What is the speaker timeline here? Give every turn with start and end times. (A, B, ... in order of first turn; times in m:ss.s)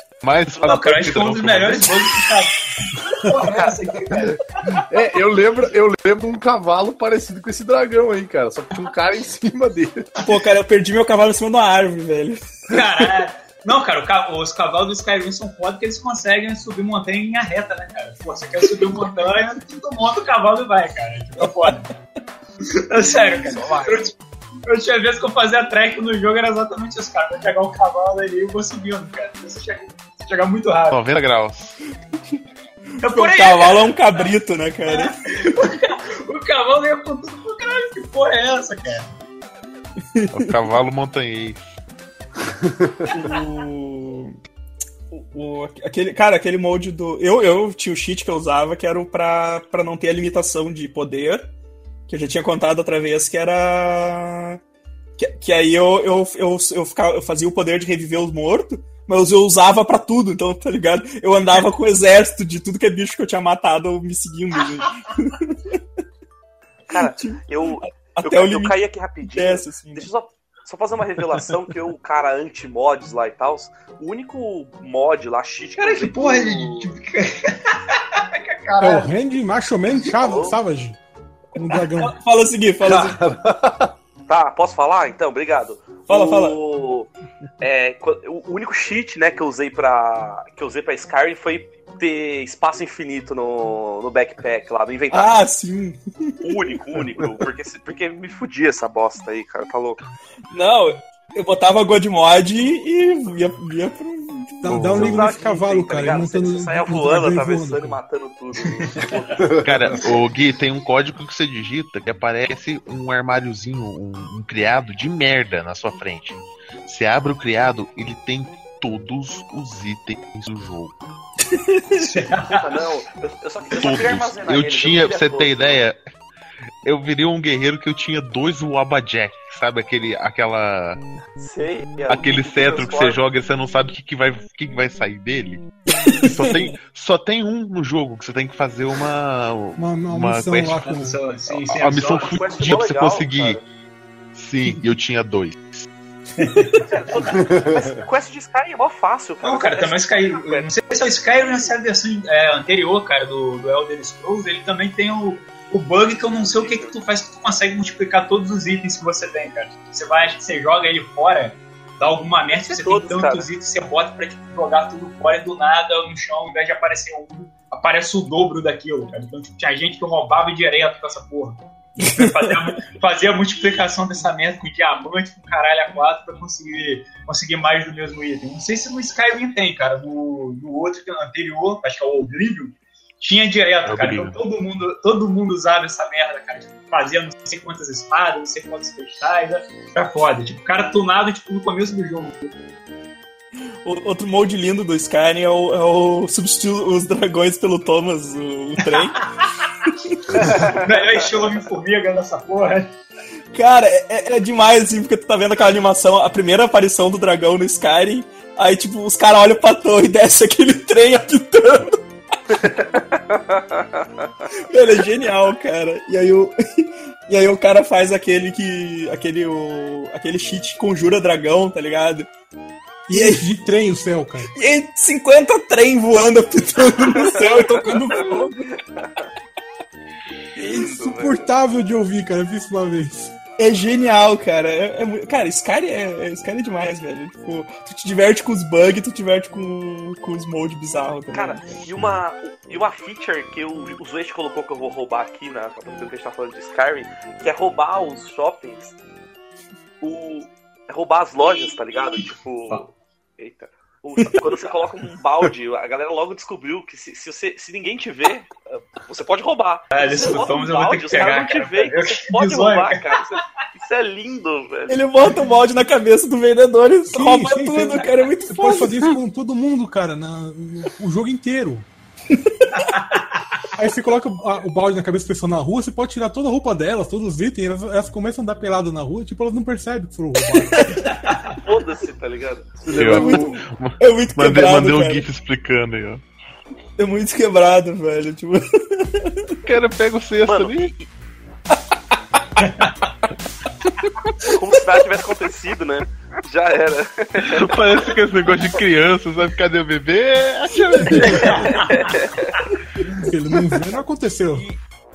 0:00.2-0:02.3 A
0:00.6-0:04.8 B
0:04.7-0:10.1 C
0:10.2-0:12.4 D
0:12.7-0:21.9 B
0:22.8-0:24.1 B
0:24.7-0:31.0 B
0:30.9-0:31.8 A
0:33.0-0:34.0 B
0:33.0-0:35.2 D
0:34.9-0:39.1 B
0:40.1-0:40.5 D
0:40.3-0:41.6 A
0:42.6-0:42.9 C
0:43.1-0:44.4 D
0:45.1-0:51.5 D
0:52.1-0:54.6 D
0:55.2-1:05.8 D
1:06.9-1:16.9 E
1:06.9-1:08.8 D
1:09.3-1:10.1 D
1:15.8-1:19.1 B
1:18.8-1:21.0 F
1:20.2-1:20.6 E
1:21.5-1:22.1 F
1:22.0-1:23.2 D
1:22.8-1:23.9 C
1:24.3-1:27.1 E
1:26.1-1:26.6 D
1:27.6-1:35.4 E
1:35.1-1:36.5 D
1:36.4-1:40.0 E
1:40.5-1:44.8 D
1:44.6-1:48.0 F
1:44.7-1:45.3 A
1:45.0-1:49.9 E
1:48.8-1:49.2 B
1:49.4-1:50.0 C
1:49.6-2:01.0 A
2:01.4-2:02.1 D
2:01.9-2:02.7 B
2:02.5-2:05.8 E
2:03.7-2:06.0 A
2:06.8-2:11.0 A
2:11.4-2:13.2 E
2:12.1-2:20.9 A
2:16.3-2:16.5 D
2:19.8-2:21.2 F
2:20.8-2:22.4 B
2:21.5-2:23.6 A
2:22.0-2:23.6 E
2:24.3-2:25.9 A
2:26.4-2:27.3 B
2:26.8-2:30.7 E
2:27.3-2:27.8 C
2:29.4-3:12.5 B
2:31.3-2:31.7 E
2:36.3-2:37.0 E
2:42.6-2:43.5 E
2:52.0-2:52.5 D
3:03.8-3:04.4 A
3:13.8-3:19.2 D
3:18.8-3:22.9 B
3:19.9-3:20.7 D
3:20.6-3:21.0 E
3:23.5-3:32.0 D
3:32.5-3:34.3 E
3:34.7-3:42.3 D
3:43.1-3:44.5 F
3:43.1-3:43.5 D
3:44.5-3:48.7 D
3:47.1-3:47.6 E
3:48.1-3:49.1 E
3:50.6-3:51.5 E
3:50.7-3:53.3 F
3:53.6-4:01.8 D
4:01.3-4:08.9 E
4:10.0-4:25.0 E
4:12.2-4:12.9 B
4:14.2-4:14.6 D
4:19.9-4:23.2 B
4:24.9-4:29.1 D
4:27.1-4:31.9 F
4:32.3-4:32.8 D
4:32.9-4:33.2 B
4:33.8-4:41.0 F
4:40.8-4:41.1 D
4:41.2-4:41.6 B
4:41.5-4:42.8 E
4:42.8-4:43.6 C
4:42.9-4:46.2 A
4:43.0-4:45.2 D
4:47.0-4:49.5 D
4:49.6-4:50.9 A
4:50.4-4:51.1 E
4:52.6-4:53.0 B
4:54.4-4:57.8 E
4:57.4-5:01.8 A
5:01.2-5:02.0 B
5:01.3-5:02.6 E
5:03.2-5:04.7 F
5:04.5-5:04.8 E